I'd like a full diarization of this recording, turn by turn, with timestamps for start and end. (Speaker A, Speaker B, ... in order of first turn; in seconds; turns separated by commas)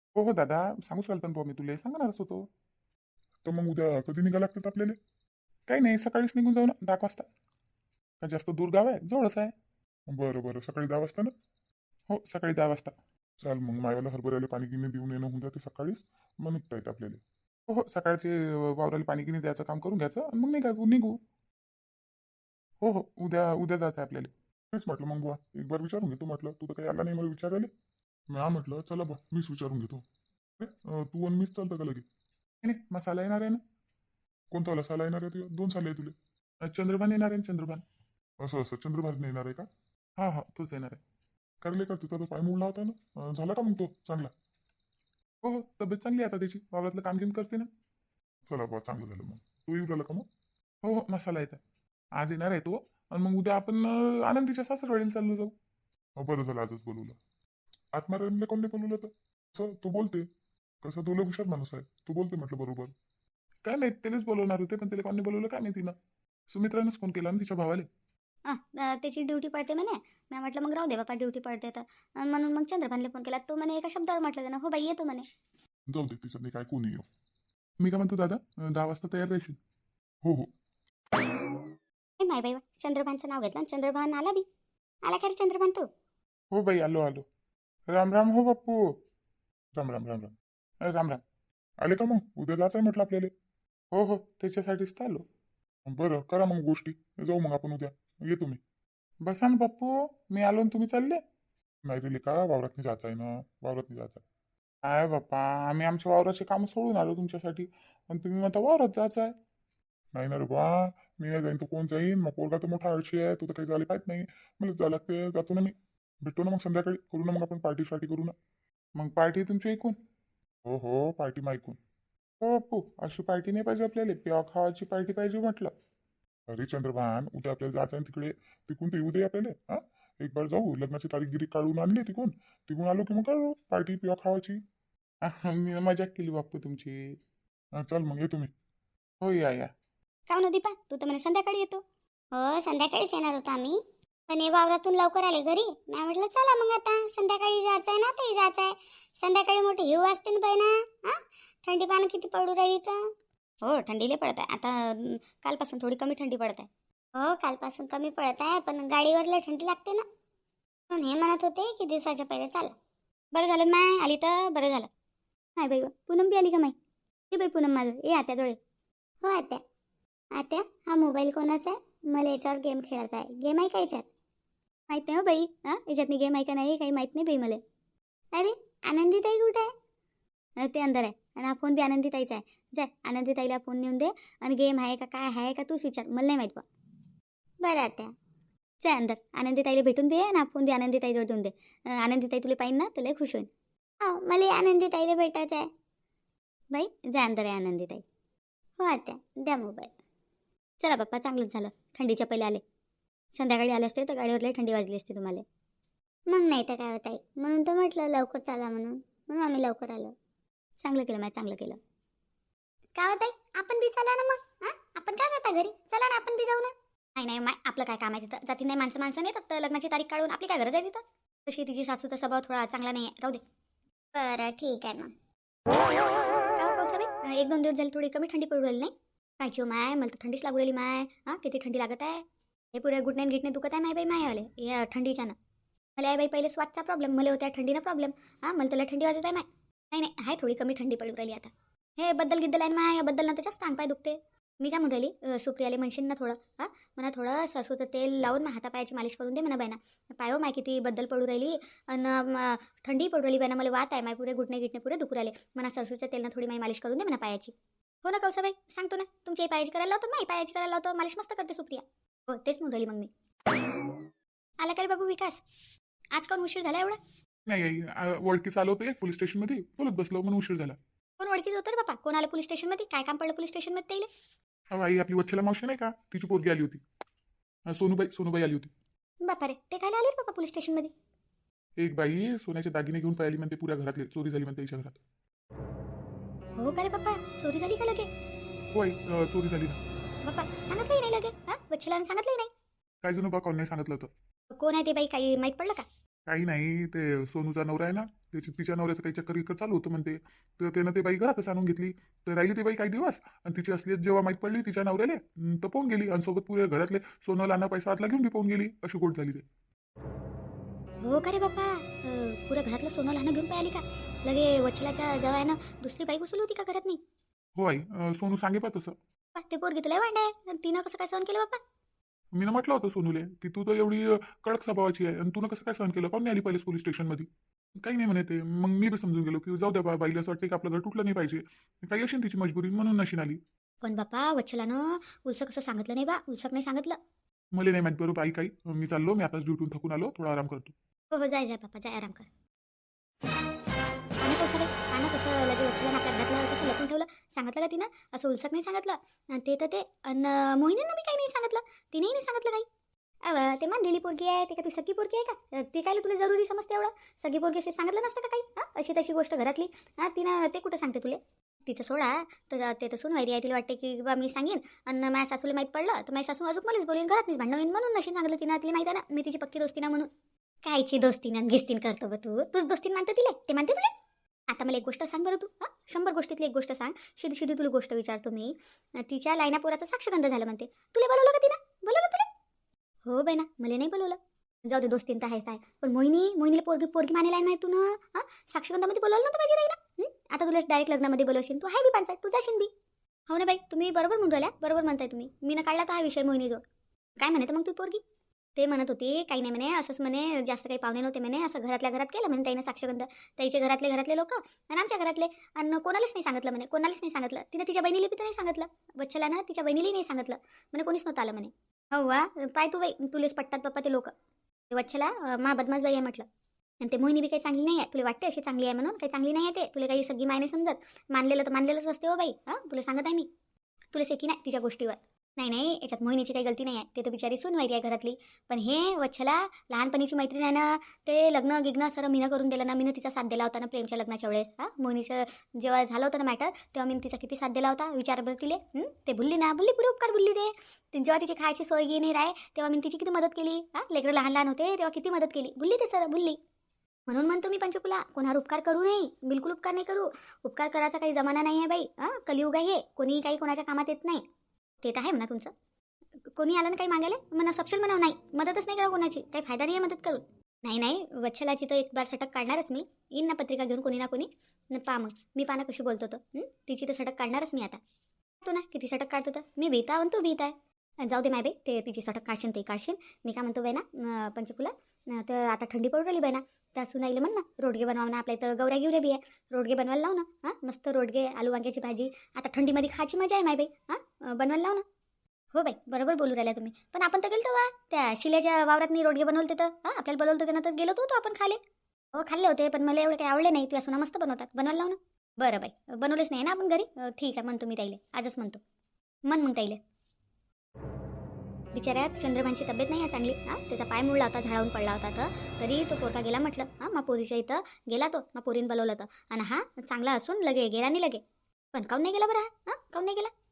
Speaker A: 0.2-2.5, Speaker B: 3.5-5.0, Speaker A: 5.7-7.3, Speaker A: 8.2-9.5, Speaker B: 10.1-11.3, Speaker A: 12.1-12.9, Speaker B: 13.4-17.2, Speaker A: 17.7-21.2, Speaker A: 22.8-24.3, Speaker B: 24.7-27.7, Speaker B: 28.3-30.0, Speaker B: 30.6-32.1, Speaker A: 32.6-33.6, Speaker B: 34.5-36.1, Speaker A: 36.6-37.8, Speaker B: 38.4-39.7, Speaker A: 40.2-41.0, Speaker B: 41.6-44.3, Speaker A: 45.4-47.7, Speaker B: 48.5-50.3, Speaker A: 50.8-51.6, Speaker A: 52.2-55.5, Speaker B: 56.2-57.2, Speaker B: 57.9-60.2, Speaker B: 60.8-62.9, Speaker A: 63.6-66.0, Speaker A: 66.5-67.9, Speaker C: 68.5-75.3, Speaker B: 75.9-77.0, Speaker A: 77.8-79.6, Speaker B: 80.2-80.5, Speaker C: 82.2-84.5, Speaker C: 85.0-85.9, Speaker A: 86.5-87.3, Speaker A: 87.9-89.0, Speaker B: 89.8-90.3, Speaker A: 90.8-91.2, Speaker B: 91.8-93.3, Speaker A: 93.9-95.2, Speaker B: 95.9-98.6, Speaker A: 99.2-101.2, Speaker B: 101.8-104.2, Speaker A: 104.8-109.3, Speaker B: 110.1-118.3, Speaker A: 119.0-120.0, Speaker B: 120.7-121.8, Speaker A: 122.4-125.7, Speaker B: 126.5-134.6, Speaker A: 135.2-137.2, Speaker B: 137.7-138.5, Speaker A: 139.2-139.7, Speaker C: 140.3-141.8, Speaker C: 142.3-153.0, Speaker C: 153.6-160.0, Speaker C: 160.9-162.7, Speaker C: 163.3-164.9, Speaker C: 165.6-166.8, Speaker C: 167.3-168.6, Speaker C: 169.2-169.6, Speaker C: 170.3-174.1, Speaker C: 174.9-177.6, Speaker C: 178.3-179.7, Speaker C: 180.6-186.7, Speaker C: 187.6-188.1, Speaker C: 188.8-193.5, Speaker C: 194.0-195.7, Speaker C: 196.7-198.0, Speaker C: 198.8-199.9, Speaker C: 200.8-202.6, Speaker C: 203.3-205.4, Speaker C: 206.3-210.1, Speaker C: 210.8-211.8, Speaker C: 213.0-223.4, Speaker C: 224.2-225.1, Speaker C: 226.6-235.4, Speaker C: 236.0-263.1, Speaker C: 264.6-265.4, Speaker C: 266.1-267.0, Speaker A: 267.5-270.8, Speaker C: 271.2-274.1, Speaker A: 274.7-276.8, Speaker A: 277.7-278.7, Speaker C: 279.2-280.9, Speaker A: 281.8-285.0, Speaker C: 286.6-288.1, Speaker A: 288.7-289.8, Speaker C: 290.2-292.5, Speaker A: 293.0-294.1, Speaker C: 294.5-295.9, Speaker A: 296.3-309.4, Speaker C: 311.0-317.0, Speaker A: 317.6-318.9, Speaker C: 319.4-321.6, Speaker A: 322.3-327.3, Speaker A: 327.8-333.4, Speaker C: 333.8-337.0, Speaker A: 337.5-340.7, Speaker C: 341.1-342.3, Speaker C: 344.2-352.7, Speaker C: 353.2-370.1, Speaker C: 370.6-373.9, Speaker C: 374.5-382.3, Speaker C: 383.1-392.7, Speaker C: 393.3-396.6, Speaker C: 397.2-398.0, Speaker C: 398.6-414.1, Speaker C: 414.7-416.3, Speaker C: 416.8-423.3, Speaker C: 423.9-446.4, Speaker C: 447.1-454.2, Speaker C: 454.8-455.5, Speaker C: 456.3-467.8, Speaker C: 468.4-484.9, Speaker C: 485.5-491.6, Speaker C: 492.1-498.6, Speaker C: 499.3-499.8, Speaker C: 501.7-511.2, Speaker C: 511.7-513.3